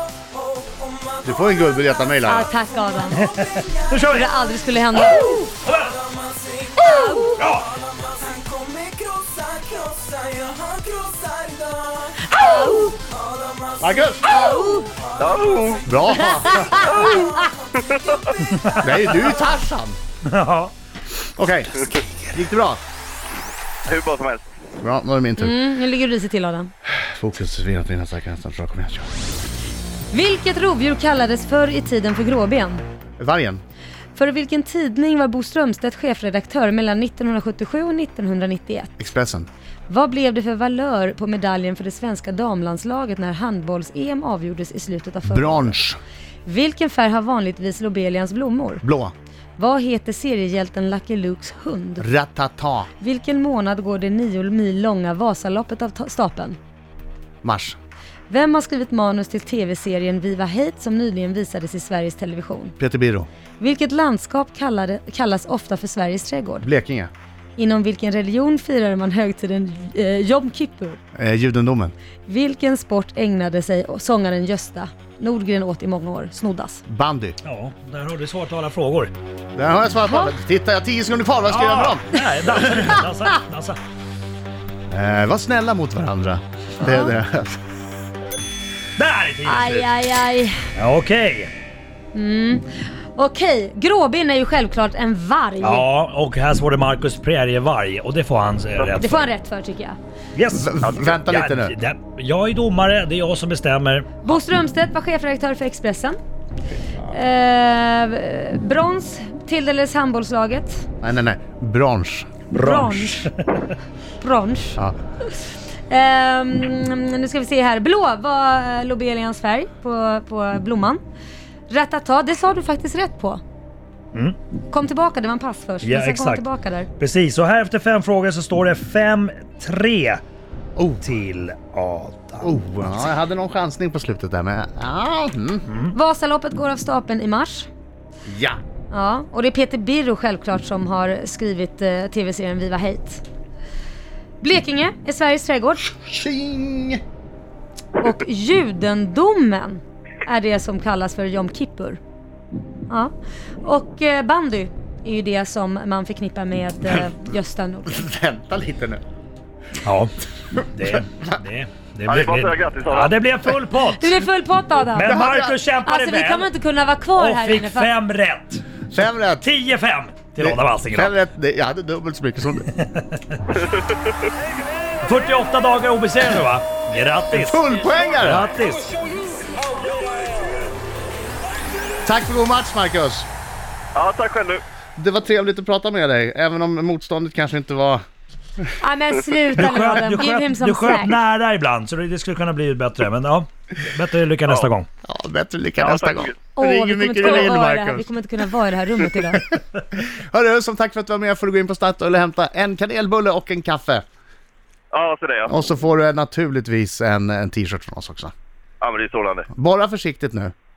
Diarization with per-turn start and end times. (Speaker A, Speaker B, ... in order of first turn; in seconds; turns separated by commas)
Speaker A: 0.8-1.1, Speaker B: 1.2-2.5, Speaker C: 2.2-3.3, Speaker D: 3.1-4.2, Speaker C: 3.9-5.5, Speaker D: 5.0-6.1, Speaker A: 6.2-6.6, Speaker C: 6.8-7.4, Speaker D: 7.3-7.8, Speaker A: 7.8-12.1, Speaker C: 12.2-12.9, Speaker A: 13.0-13.8, Speaker B: 13.8-14.5, Speaker C: 14.4-14.8, Speaker E: 15.2-15.9, Speaker B: 15.8-16.9, Speaker C: 16.2-17.2, Speaker E: 16.7-18.6, Speaker D: 18.5-18.8, Speaker B: 18.8-20.0, Speaker D: 20.2-20.7, Speaker B: 21.2-22.8, Speaker E: 23.9-24.5, Speaker B: 24.8-25.5, Speaker C: 25.4-26.7, Speaker B: 26.9-29.1, Speaker C: 30.1-32.8, Speaker B: 33.2-33.6, Speaker C: 34.1-38.9, Speaker B: 39.0-39.5, Speaker C: 39.9-45.8, Speaker B: 45.2-46.0, Speaker C: 46.5-48.8, Speaker B: 48.8-49.1, Speaker C: 49.6-52.1, Speaker B: 52.0-52.9, Speaker C: 53.0-56.6, Speaker B: 57.4-57.8, Speaker C: 58.3-62.8, Speaker B: 62.8-63.3, Speaker C: 63.6-66.7, Speaker B: 66.6-67.1, Speaker C: 67.6-71.0, Speaker B: 71.2-71.9, Speaker C: 72.2-76.8, Speaker B: 76.8-77.3, Speaker D: 77.4-79.1, Speaker B: 79.6-82.7, Speaker C: 80.1-80.3, Speaker D: 81.5-83.8, Speaker B: 84.9-87.6, Speaker C: 86.8-87.1, Speaker D: 89.0-89.9, Speaker C: 89.4-90.7, Speaker D: 90.8-91.5, Speaker C: 92.1-95.8, Speaker D: 95.6-99.3, Speaker C: 99.0-100.0, Speaker D: 100.3-104.3, Speaker B: 100.6-101.8, Speaker C: 104.2-106.2, Speaker B: 106.8-107.2, Speaker C: 107.1-110.8, Speaker B: 111.0-112.3, Speaker C: 112.5-113.3, Speaker D: 112.5-113.7, Speaker C: 114.2-114.8, Speaker C: 115.9-121.0, Speaker C: 121.7-123.4, Speaker C: 124.7-126.9, Speaker D: 125.8-126.5, Speaker D: 127.0-130.2, Speaker B: 130.8-131.0, Speaker D: 131.0-132.5, Speaker B: 132.4-135.7, Speaker D: 135.7-135.9, Speaker C: 135.9-137.7, Speaker B: 138.3-138.6, Speaker C: 138.9-143.2, Speaker C: 144.4-145.9, Speaker B: 145.9-147.0, Speaker C: 148.0-152.0, Speaker C: 153.6-158.0, Speaker B: 157.9-159.0, Speaker D: 159.8-164.2, Speaker E: 162.1-163.1, Speaker C: 163.9-165.2, Speaker D: 164.9-166.5, Speaker B: 165.0-165.6, Speaker C: 165.8-167.9, Speaker D: 167.2-168.7, Speaker B: 168.9-169.5, Speaker D: 169.4-171.2, Speaker B: 170.4-172.7, Speaker D: 172.8-173.4, Speaker E: 173.6-174.0, Speaker D: 175.0-178.9, Speaker B: 177.3-178.5, Speaker B: 182.0-183.3, Speaker E: 183.9-184.6, Speaker B: 185.0-188.0, Speaker C: 188.8-191.2, Speaker D: 189.5-194.9, Speaker B: 195.0-198.1, Speaker E: 195.8-196.4, Speaker C: 196.6-199.5, Speaker B: 199.9-204.0, Speaker E: 204.9-205.5, Speaker B: 205.5-208.3, Speaker E: 208.8-209.5, Speaker B: 209.5-210.5